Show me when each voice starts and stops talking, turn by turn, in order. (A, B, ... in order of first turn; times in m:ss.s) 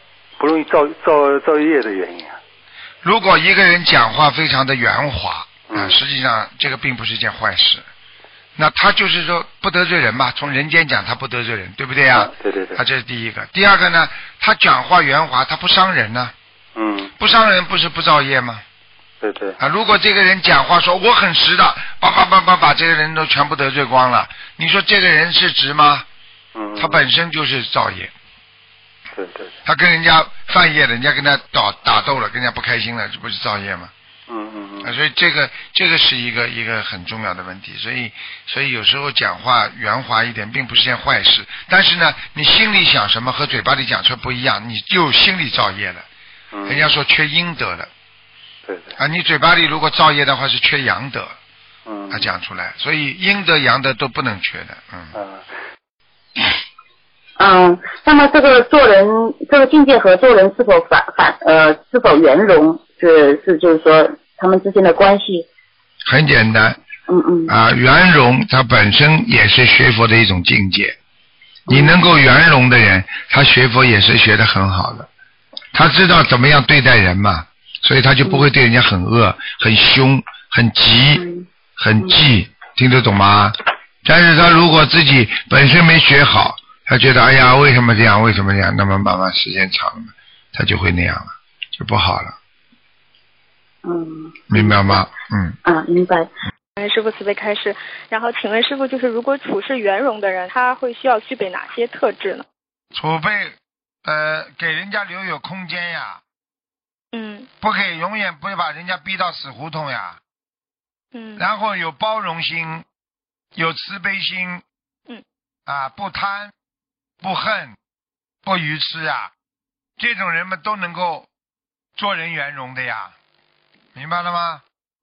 0:00.4-0:02.4 A
0:03.0-0:07.8 B
0:05.7-0:06.0 A
0:08.6-0:16.3 B
0:12.1-0:12.8 A
0:16.8-0:17.1 A
0:17.2-0:18.6 B
0:19.2-0:19.6 A
0:19.6-0:26.1 B
0:26.6-0:27.0 A
0:26.8-0:28.1 B
0:29.1-0:29.5 A
0:29.6-0:33.9 B
0:34.3-0:34.9 A
0:34.8-0:46.1 B
0:46.5-0:46.8 A
0:46.7-0:47.9 B
0:48.7-0:49.0 A
0:49.0-0:51.4 B
0:51.9-0:52.3 A
0:52.1-0:55.1 B
0:55.1-0:55.5 A
0:57.4-1:05.5 C
1:06.0-1:06.8 B
1:07.1-1:07.5 C
1:07.5-1:11.0 B
1:11.7-1:12.0 C
1:11.7-1:15.1 B
1:15.7-1:21.2 B
1:21.2-1:21.5 C
1:21.8-1:32.4 B
1:33.8-1:35.1 C
1:34.5-1:35.6 B
1:35.7-1:36.3 C
1:36.8-1:42.4 D
1:42.9-1:46.2 B
1:47.1-1:47.5 D
1:47.6-1:50.2 B
1:51.1-1:51.4 D
1:51.4-1:52.8 B
1:53.6-1:54.6 B
1:55.7-1:56.5 B
1:57.2-1:57.8 B
1:58.4-1:59.3 B
2:00.0-2:01.3 B
2:02.0-2:03.1 B
2:04.0-2:04.6 B